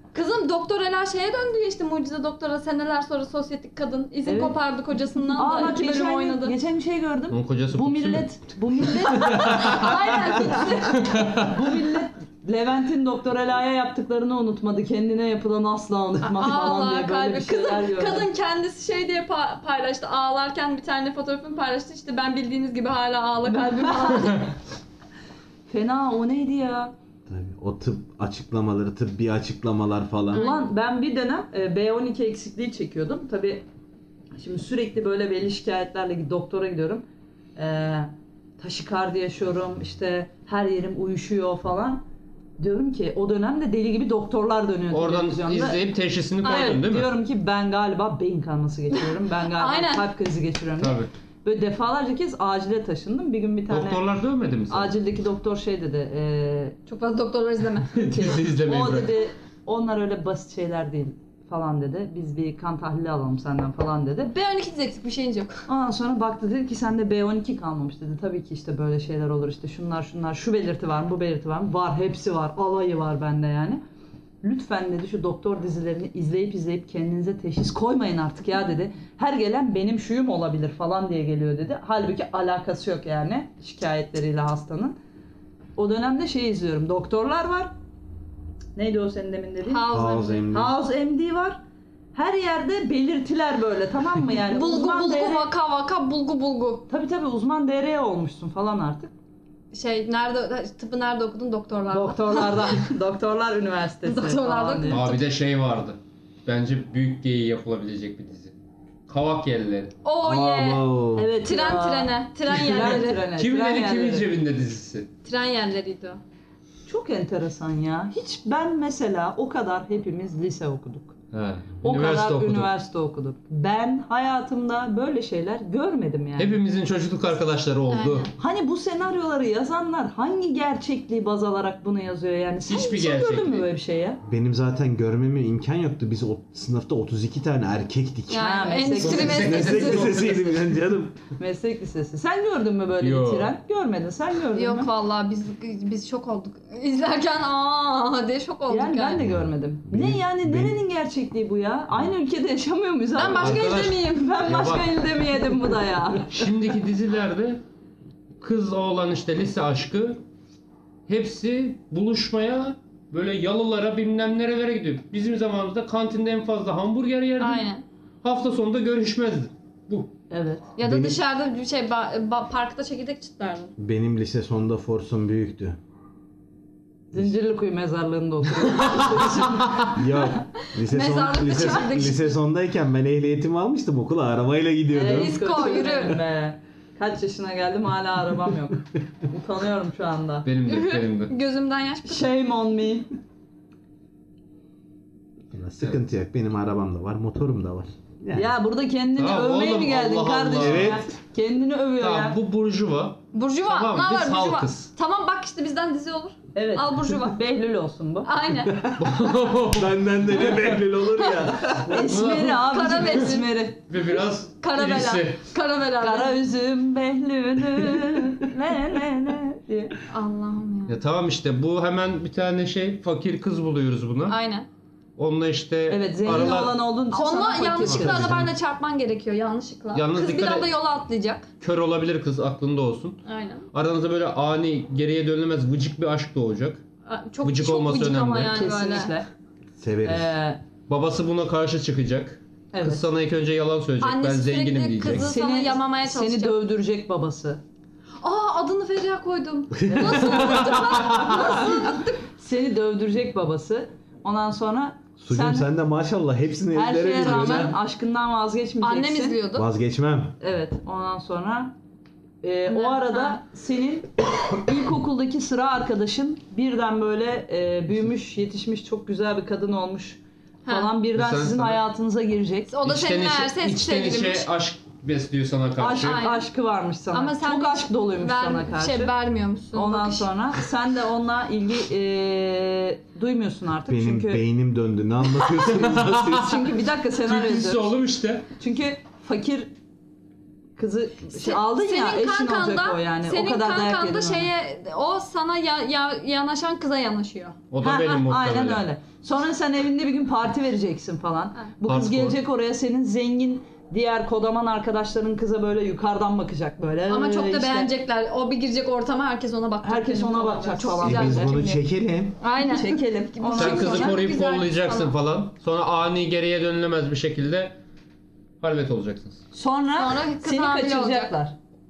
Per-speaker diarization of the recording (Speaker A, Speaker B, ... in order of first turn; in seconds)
Speaker A: 0.1-6.5, 8.9-11.4, 16.2-24.5, 30.3-30.6, 46.4-46.8, 48.9-50.0, 56.9-58.1, 64.2-65.6, 89.7-90.4, 94.5-96.9, 99.7-102.7, 104.0-105.2, 110.0-110.9, 111.4-113.2, 115.2-116.2, 127.9-128.3, 138.3-140.1, 144.5-149.2, 153.2-154.4, 167.4-167.8, 170.8-173.7, 180.8-182.4, 184.9-186.2, 190.7-192.2, 203.3-207.4, 208.2-208.8, 212.6-213.5, 214.6-216.4, 220.1-221.0, 224.3-224.7, 227.1-231.5, 233.2-233.7, 237.1-239.1, 244.0-246.6, 248.2-252.2, 257.1-257.7, 258.8-259.7, 262.7-263.4, 270.6-270.9, 272.7-274.5, 275.9-276.5, 277.1-280.3, 291.3-297.6, 307.1-311.8, 312.4-315.1, 320.0-321.4
Speaker B: 4.2-4.6, 5.3-18.3, 23.5-24.4, 25.7-26.9, 30.3-33.6, 34.3-37.0, 37.5-42.0, 42.6-45.8, 46.4-54.0, 54.7-56.8, 58.1-64.3, 65.7-73.8, 74.4-85.0, 85.8-87.7, 88.7-89.9, 90.5-91.6, 92.1-95.5, 96.9-99.1, 101.9-105.0, 111.1-114.2, 116.8-121.2, 121.8-126.6, 128.4-134.2, 138.4-140.2, 141.3-144.9, 148.7-156.3, 170.3-170.6, 177.1-180.4, 184.9-190.5, 192.1-193.1, 198.3-202.3, 206.5-208.3, 211.9-213.8, 216.0-219.9, 225.9-228.3, 238.4-239.3, 240.0-240.6, 242.7-243.0, 245.1-247.6, 249.9-255.7, 256.7-259.4, 260.4-261.8, 262.4-272.8, 275.8-279.1, 279.7-284.4, 286.2-287.9, 288.6-289.7, 290.8-294.5, 297.8-307.9, 309.8-311.8, 312.6-314.2, 319.5-321.6
Speaker C: 7.3-8.3, 9.0-9.9, 10.9-11.4, 44.9-47.1, 50.8-51.1, 53.7-54.9, 57.9-59.2, 104.9-108.5, 109.1-109.9, 112.7-115.1, 121.3-122.7, 126.4-128.3, 132.6-133.7, 139.0-140.6, 143.0-143.5, 153.2-154.9, 156.3-157.6, 158.4-160.2, 161.1-167.7, 168.2-170.1, 178.8-179.9, 190.4-191.3, 199.2-201.0, 202.0-204.9, 209.0-210.8, 211.9-215.4, 220.9-224.3, 225.2-226.8, 229.9-230.7, 231.6-233.2, 233.7-236.8, 237.4-238.7, 240.9-245.3, 250.7-251.3, 271.1-271.8, 272.8-276.2, 285.6-286.5, 287.1-288.4, 297.7-298.8, 301.8-302.4, 313.5-317.8, 318.6-319.4
Speaker D: 27.3-30.4, 89.9-90.7, 110.2-111.4, 134.2-141.3, 149.2-150.8, 170.8-171.2, 173.8-175.8, 179.9-185.4, 195.5-198.5, 200.6-201.0, 208.7-212.0, 217.9-218.2, 227.8-228.5, 239.8-240.3, 249.8-250.4, 255.2-257.8, 259.5-260.4, 283.8-286.6, 311.0-312.4